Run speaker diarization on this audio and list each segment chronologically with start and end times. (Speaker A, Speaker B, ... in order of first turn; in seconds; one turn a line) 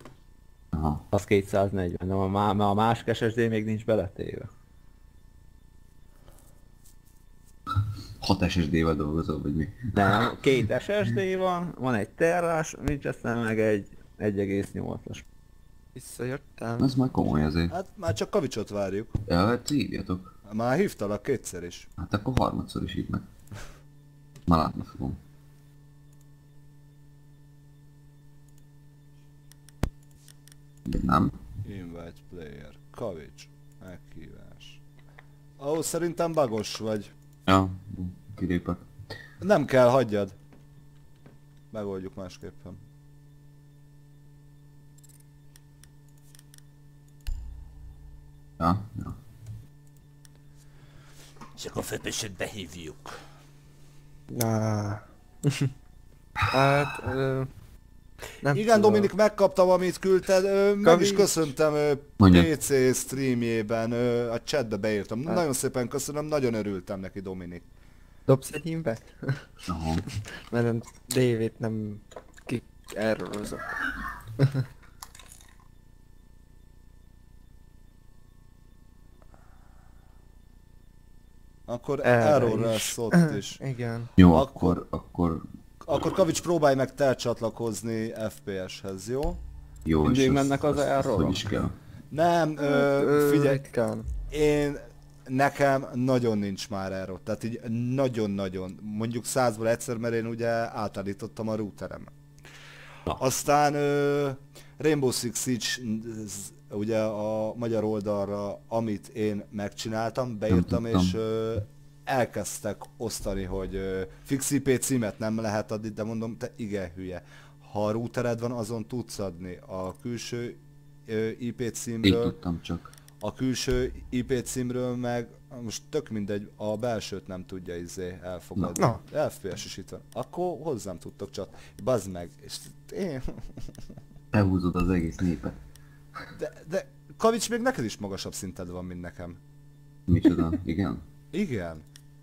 Speaker A: 0.7-1.1
Speaker B: 1.1-4.5
Speaker A: 8.2-10.4
Speaker B: 9.9-15.2
Speaker C: 15.9-16.9
Speaker A: 16.8-17.7
Speaker D: 17.7-19.2
Speaker A: 19.3-20.4
Speaker D: 20.5-21.9
Speaker A: 22.0-23.2
Speaker A: 24.5-25.2
Speaker A: 30.9-31.3
Speaker D: 31.6-34.8
Speaker D: 35.6-37.1
Speaker A: 37.5-38.9
Speaker D: 39.4-40.4
Speaker D: 41.7-42.8
Speaker A: 48.6-49.2
Speaker D: 51.6-53.0
Speaker C: 54.3-55.7
Speaker C: 56.5-57.5
Speaker C: 58.4-59.1
Speaker D: 58.5-67.7
Speaker C: 60.8-61.5
Speaker A: 62.2-62.5
Speaker C: 68.3-69.4
Speaker A: 69.7-70.0
Speaker C: 70.5-73.8
Speaker C: 74.4-74.6
Speaker D: 81.7-83.6
Speaker C: 82.0-84.1
Speaker A: 84.2-85.4
Speaker D: 84.2-84.8
Speaker D: 85.8-89.4
Speaker A: 89.8-91.8
Speaker B: 90.0-91.5
Speaker D: 92.1-93.7
Speaker C: 92.6-94.1
Speaker D: 94.3-102.1
Speaker D: 103.1-122.4
Speaker A: 110.5-111.2
Speaker A: 122.0-122.9
Speaker D: 123.2-133.7
Speaker C: 128.8-129.0
Speaker A: 134.3-135.6
Speaker D: 136.3-139.4
Speaker A: 140.1-141.0
Speaker D: 141.3-141.8